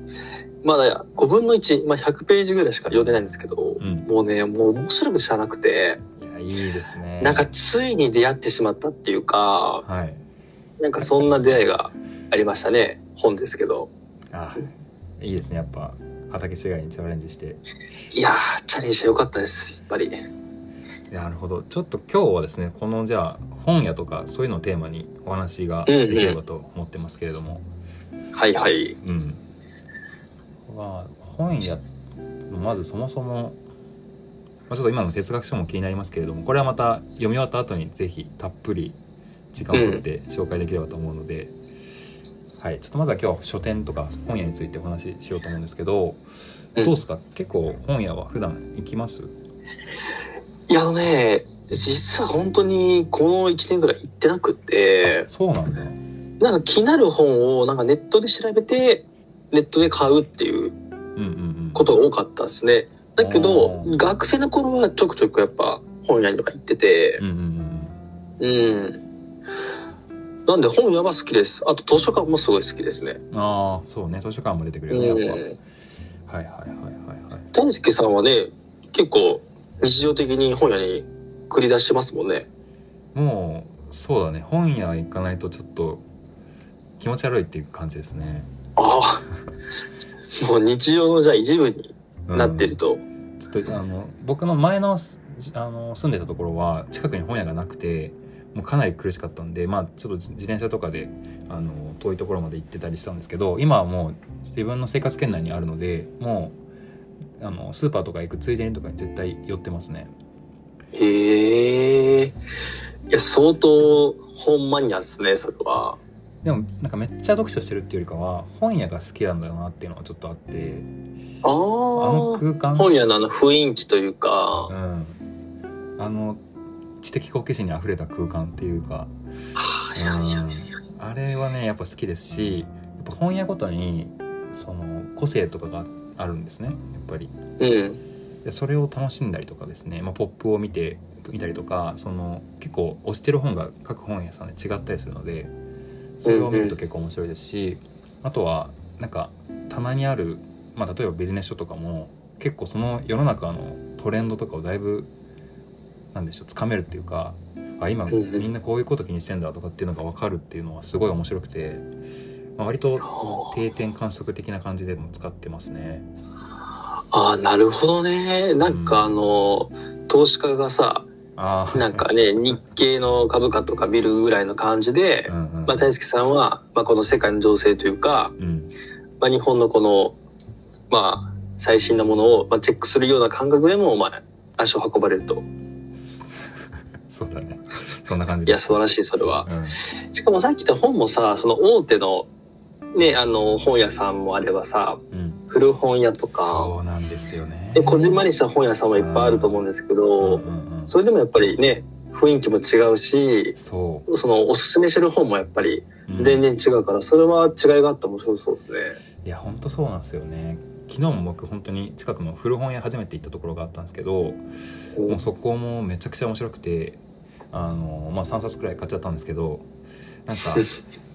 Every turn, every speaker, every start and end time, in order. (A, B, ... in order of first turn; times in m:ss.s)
0:00.6-0:06.0 A
0:03.8-0:04.1 B
0:06.2-0:07.5 B
0:07.2-0:09.8 A
0:09.8-0:10.2 B
0:10.8-0:13.9 A
0:14.3-0:17.6 B
0:18.1-0:20.3 A
0:21.1-0:27.6 B
0:25.9-0:26.4 A
0:28.3-0:29.0 A
0:29.0-0:29.4 B
0:30.7-0:31.8 B
0:32.5-0:33.6 B
0:34.7-0:39.0 B
0:39.5-0:41.6 B
0:39.7-0:40.0 A
0:42.6-0:46.2 B
0:46.8-0:49.3 B
0:50.7-0:55.3 A
0:55.0-0:56.0 B
0:56.4-1:00.8 A
1:01.2-1:01.9 B
1:01.7-1:07.2 A
1:03.2-1:04.0 B
1:07.2-1:08.0 B
1:08.4-1:09.0 A
1:10.5-1:13.2 A
1:13.3-1:15.4 B
1:14.9-1:15.6 A
1:16.3-1:17.5 B
1:17.5-1:22.5 A
1:23.1-1:26.0 B
1:27.0-1:28.5 B
1:28.8-1:29.3 A
1:30.3-1:33.0 A
1:32.3-1:32.8 B
1:33.4-1:46.6 B
1:47.4-1:50.1 B
1:50.9-1:52.4 A
1:53.1-1:56.0 A
1:56.4-2:00.9 B
2:01.4-2:04.7 A
2:02.0-2:02.9 B
2:04.7-2:05.2 B
2:06.0-2:06.4 B
2:07.0-2:09.1 B
2:09.6-2:10.4 A
2:09.9-2:17.3 B
2:17.6-2:18.0 A
2:18.4-2:25.5 B
2:26.2-2:35.1 B
2:26.2-2:26.8 A
2:36.1-2:41.8 B
2:38.1-2:38.5 A
2:42.6-2:46.1 B
2:43.0-2:43.5 A
2:47.1-2:51.1 A
2:48.6-2:49.1 B
2:51.3-2:52.0 B
2:51.7-2:58.3 A
2:55.3-2:55.9 B
2:58.4-2:58.7 B
2:59.2-3:00.2 A
3:00.9-3:05.4 A
3:05.9-3:08.8 B
3:08.5-3:09.5 A
3:09.4-3:09.8 B
3:10.1-3:12.3 A
3:12.9-3:16.7 A
3:15.1-3:15.4 B
3:16.3-3:18.2 B
3:17.7-3:23.6 A
3:19.0-3:19.6 B
3:20.2-3:20.9 B
3:23.6-3:24.1 B
3:24.1-3:29.0 A
3:26.1-3:26.4 B
3:29.2-3:34.4 B
3:35.1-3:37.0 B
3:37.5-3:39.7 B
3:40.2-3:40.7 B